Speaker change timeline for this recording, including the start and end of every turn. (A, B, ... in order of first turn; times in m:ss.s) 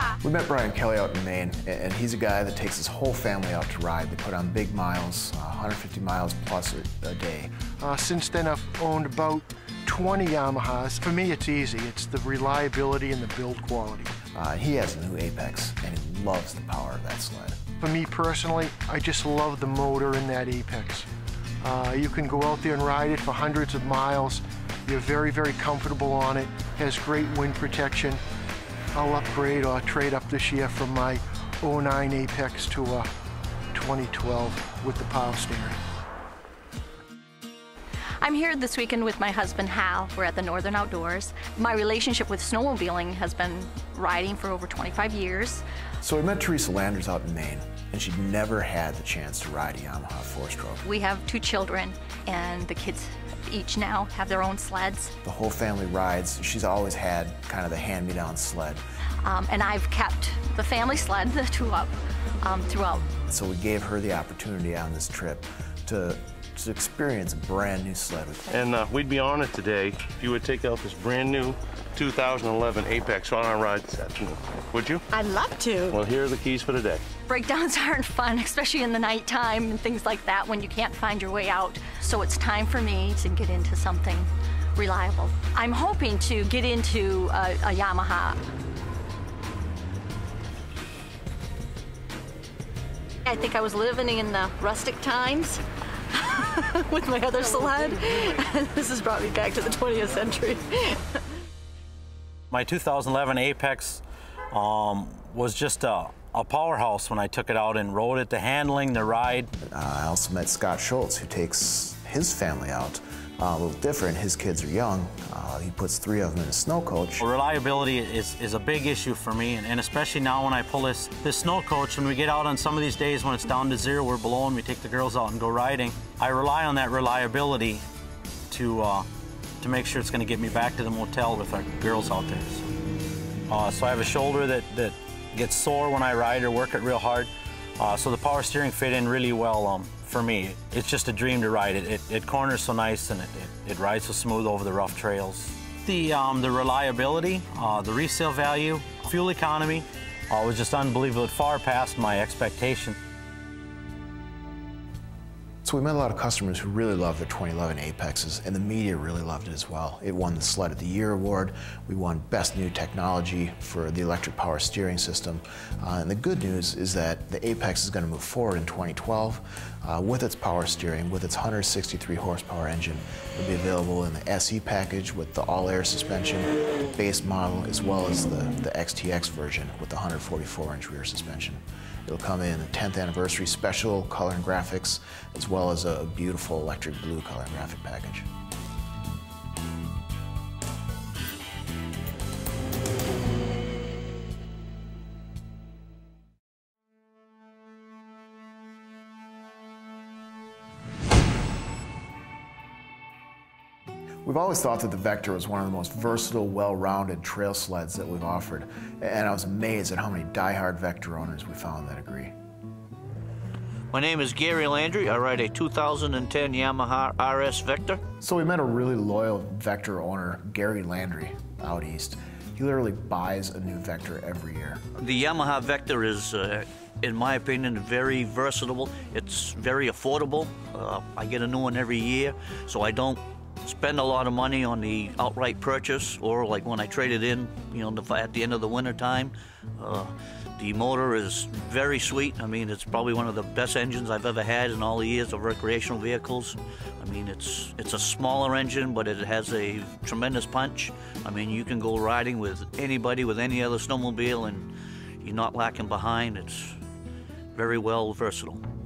0:00.2-0:07.5 A
0:07.8-0:14.1 B
0:14.3-0:17.6 A
0:17.8-0:21.1 B
0:21.6-0:28.2 B
0:28.9-0:33.1 B
0:33.7-0:35.8 B
0:38.2-0:45.6 C
0:46.0-0:50.8 A
0:50.8-0:55.1 C
0:55.2-0:58.8 A
0:59.2-1:03.0 C
1:03.3-1:08.6 A
1:08.5-1:15.0 D
1:15.1-1:16.0 C
1:15.9-1:17.0 D
1:17.3-1:28.4 C
1:33.2-1:35.6 C
1:36.1-1:41.0 C
1:42.5-1:49.5 E
1:49.6-1:57.2 A
1:57.2-2:07.8 E
2:08.5-2:09.1 E
2:09.6-2:12.6 E
2:13.5-2:32.9 E
2:35.6-3:08.3 A
3:24.2-3:32.3 A
3:33.9-3:38.0 F
3:38.2-3:44.8 A
3:45.0-4:14.7 F
4:15.2-4:16.8 F
4:17.5-4:18.6 F